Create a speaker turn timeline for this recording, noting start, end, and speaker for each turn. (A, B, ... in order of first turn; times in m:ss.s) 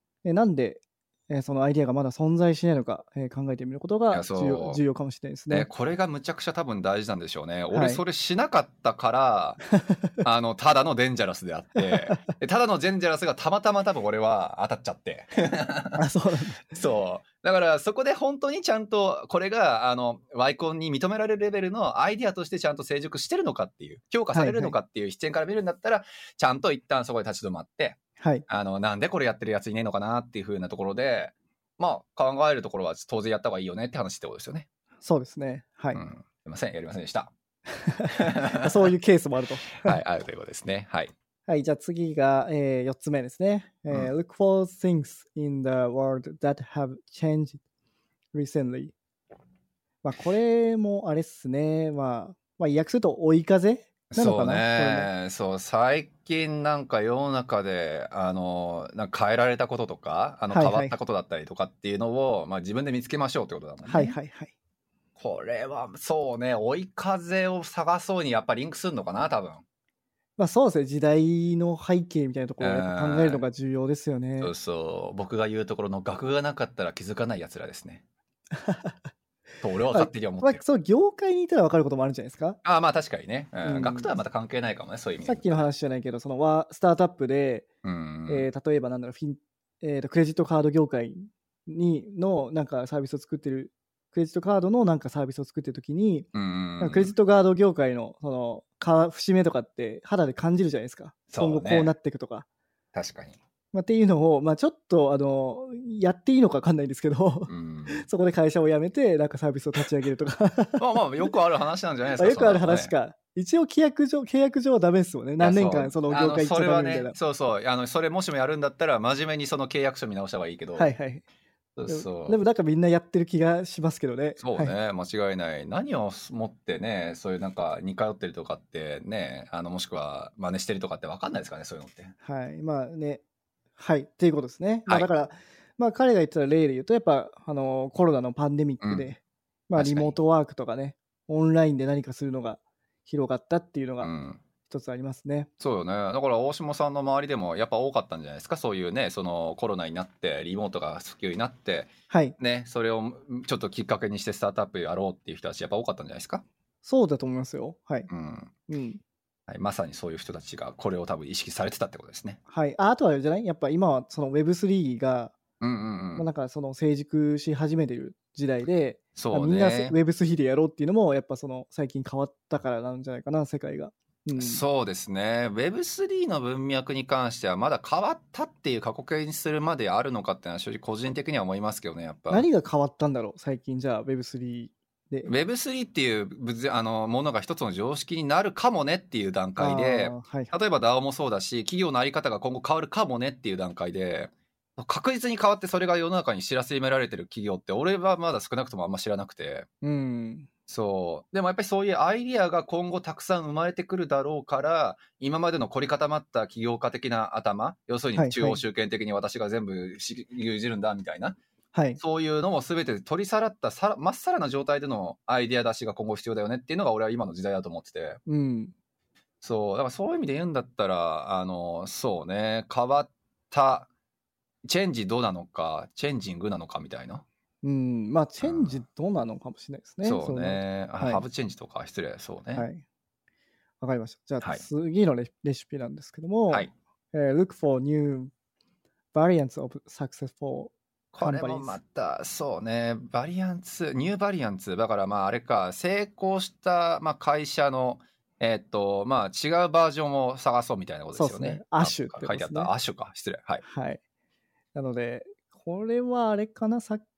0:00.2-0:05.7 A
0:04.1-0:04.8 B
0:05.5-0:09.6 B
0:07.7-0:08.0 A
0:09.7-0:10.2 A
0:10.2-0:16.0 B
0:11.8-0:12.2 A
0:16.0-0:16.8 A
0:16.7-0:34.7 B
0:24.3-0:24.8 A
0:28.2-0:28.4 A
0:35.0-0:36.0 A
0:35.9-0:37.3 B
0:37.7-0:40.0 A
0:38.1-0:38.8 B
0:39.8-0:41.1 B
0:41.5-0:47.6 A
0:48.3-0:48.9 A
0:50.0-0:55.1 A
0:54.1-1:04.2 B
1:00.5-1:00.9 A
1:03.9-1:04.5 A
1:05.2-1:09.6 B
1:10.4-1:14.5 A
1:12.6-1:13.4 B
1:14.4-1:18.0 B
1:18.5-1:19.0 A
1:19.6-1:20.6 B
1:19.9-1:22.6 A
1:22.6-1:25.7 B
1:23.6-1:24.1 A
1:25.2-1:27.7 A
1:27.8-1:28.5 B
1:28.3-1:36.3 A
1:36.3-1:37.1 B
1:36.8-1:42.5 A
1:41.3-1:41.9 B
1:42.9-1:43.4 B
1:43.7-1:51.3 A
1:47.5-1:48.0 B
1:50.8-1:52.9 B
1:52.2-1:57.2 A
1:55.4-2:00.9 B
2:00.8-2:01.2 A
2:01.8-2:02.4 B
2:01.9-2:04.7 A
2:04.4-2:12.1 B
2:12.2-2:13.2 A
2:13.8-2:24.1 A
2:18.8-2:19.1 B
2:19.8-2:20.2 B
2:24.0-2:24.4 B
2:24.6-2:25.5 A
2:25.6-2:36.4 B
2:32.1-2:32.4 A
2:36.8-2:38.1 A
2:38.1-2:38.5 B
2:38.7-2:39.0 A
2:39.5-2:42.4 B
2:42.5-2:45.4 A
2:45.6-2:46.3 B
2:46.2-2:54.6 A
2:49.2-2:50.0 B
2:54.4-3:02.5 B
3:02.3-3:05.3 A
3:05.2-3:19.7 B
3:09.6-3:10.5 A
3:19.8-3:20.5 A
3:20.7-3:31.4 B
3:28.2-3:28.6 A
3:31.7-3:32.0 A
3:32.0-3:38.2 B
3:38.3-3:38.7 A
3:39.4-3:43.9 B
3:44.6-3:47.2 B
3:47.6-3:51.2 A
3:48.4-3:48.8 B
3:50.0-3:52.7 B
3:52.6-3:52.8 A
3:53.8-3:58.3 A
3:59.1-4:01.8 A
4:01.1-4:13.6 B
4:11.2-4:12.7 A
4:13.6-4:14.0 A
4:14.8-4:17.0 A